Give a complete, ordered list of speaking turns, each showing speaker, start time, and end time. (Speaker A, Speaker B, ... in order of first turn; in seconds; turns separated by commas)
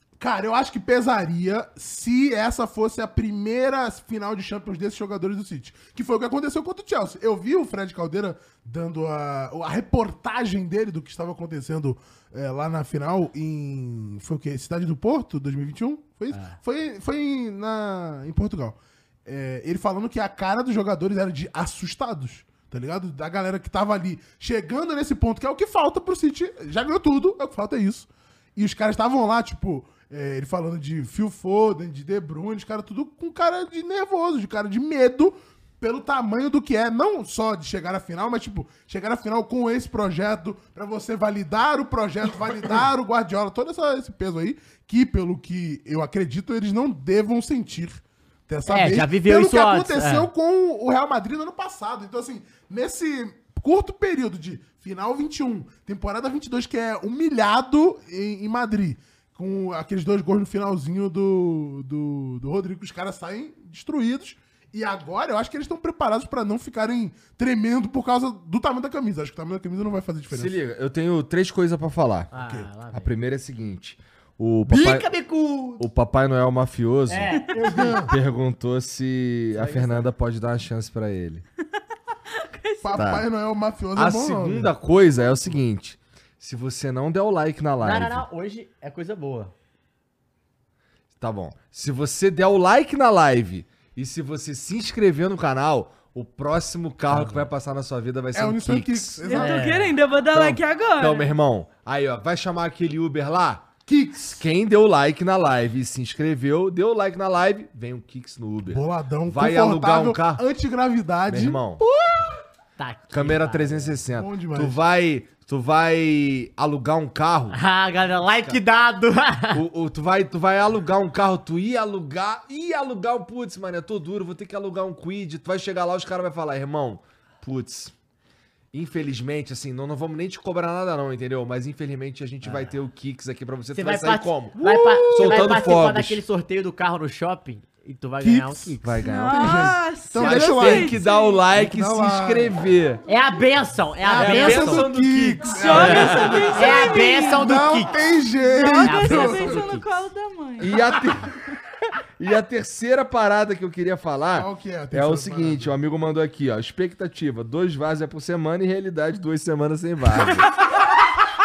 Speaker A: 0.2-70.6, Speaker B: 16.3-16.6, Speaker B: 48.6-50.3, Speaker C: 70.3-75.1, Speaker B: 72.3-73.2, Speaker A: 72.4-72.7, Speaker B: 74.7-75.8, Speaker C: 75.8-81.4, Speaker B: 77.1-78.1, Speaker A: 77.6-78.1, Speaker B: 79.5-80.1, Speaker D: 82.3-83.0, Speaker A: 82.8-84.7, Speaker C: 83.0-83.3, Speaker C: 83.9-88.2, Speaker B: 87.8-89.5, Speaker C: 91.2-99.2, Speaker B: 97.1-97.5, Speaker A: 98.3-99.9, Speaker D: 99.2-101.3, Speaker B: 99.3-99.9, Speaker C: 100.3-110.4, Speaker A: 103.8-104.4, Speaker A: 108.7-111.6, Speaker C: 111.3-111.8, Speaker B: 111.8-114.0, Speaker C: 113.1-117.6, Speaker A: 114.1-114.8, Speaker B: 117.5-119.6, Speaker C: 119.5-127.9, Speaker C: 128.7-134.6, Speaker B: 132.4-132.7, Speaker B: 133.7-139.1, Speaker A: 134.6-135.8, Speaker C: 135.1-136.2, Speaker A: 138.2-142.6, Speaker C: 138.8-143.0, Speaker D: 139.0-141.4, Speaker B: 143.1-144.9, Speaker A: 144.0-149.7, Speaker C: 144.1-146.7, Speaker D: 145.4-147.5, Speaker B: 145.7-148.0, Speaker D: 148.4-150.8, Speaker B: 148.8-149.8, Speaker C: 150.6-151.3, Speaker A: 150.7-151.0, Speaker C: 152.2-160.5, Speaker A: 154.3-155.8, Speaker D: 160.3-160.8